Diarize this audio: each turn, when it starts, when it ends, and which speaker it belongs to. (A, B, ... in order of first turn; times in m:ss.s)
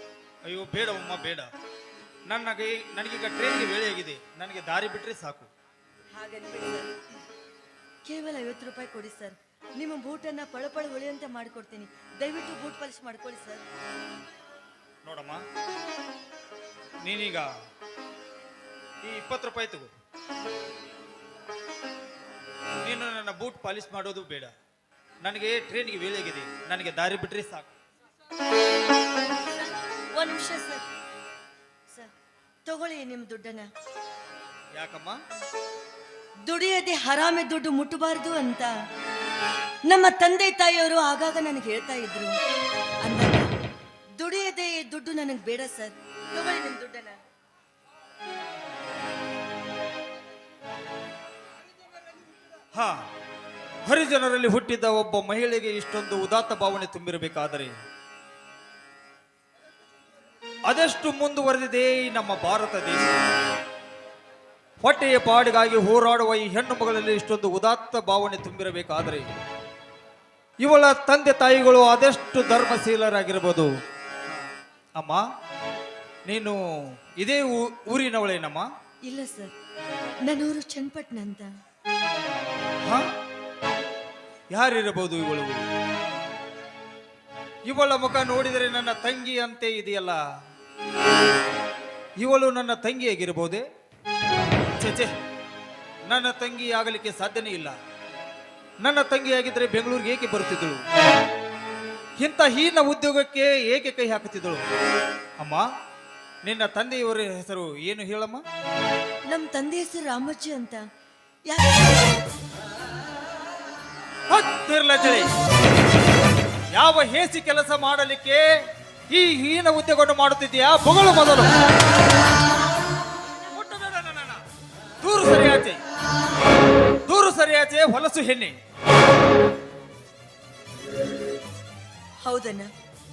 0:00.4-0:01.5 A
0:02.3-0:05.5 A
0:06.2-0:07.0 B
0:08.0-0:13.6 B
0:15.0-0:15.4 A
0:17.0-0:17.5 A
0:19.0-0:19.9 A
0:22.8-0:24.5 A
0:25.2-0:27.7 A
0:30.2-0:30.8 B
0:32.6-0:33.7 B
0:34.7-0:35.2 A
0:36.5-0:38.7 B
0:39.9-0:42.3 B
0:43.0-0:43.5 B
0:44.2-0:47.2 B
0:52.7-0:53.0 A
0:53.8-0:57.7 A
1:00.7-1:03.1 A
1:04.8-1:09.2 A
1:10.6-1:13.7 A
1:15.0-1:15.2 A
1:16.2-1:16.6 A
1:17.2-1:18.6 A
1:19.1-1:19.5 B
1:20.3-1:21.5 B
1:24.5-1:25.6 A
1:27.6-1:30.2 A
1:32.2-1:33.6 A
1:34.7-1:35.1 A
1:36.1-1:37.8 A
1:38.8-1:40.8 A
1:42.2-1:44.6 A
1:46.4-1:48.4 A
1:49.3-1:50.8 B
1:51.5-1:52.0 B
1:54.3-1:55.3 A
1:56.7-1:58.4 A
1:59.1-2:01.5 A
2:03.5-2:04.4 A
2:05.0-2:05.8 A
2:07.1-2:08.5 A
2:12.2-2:12.7 B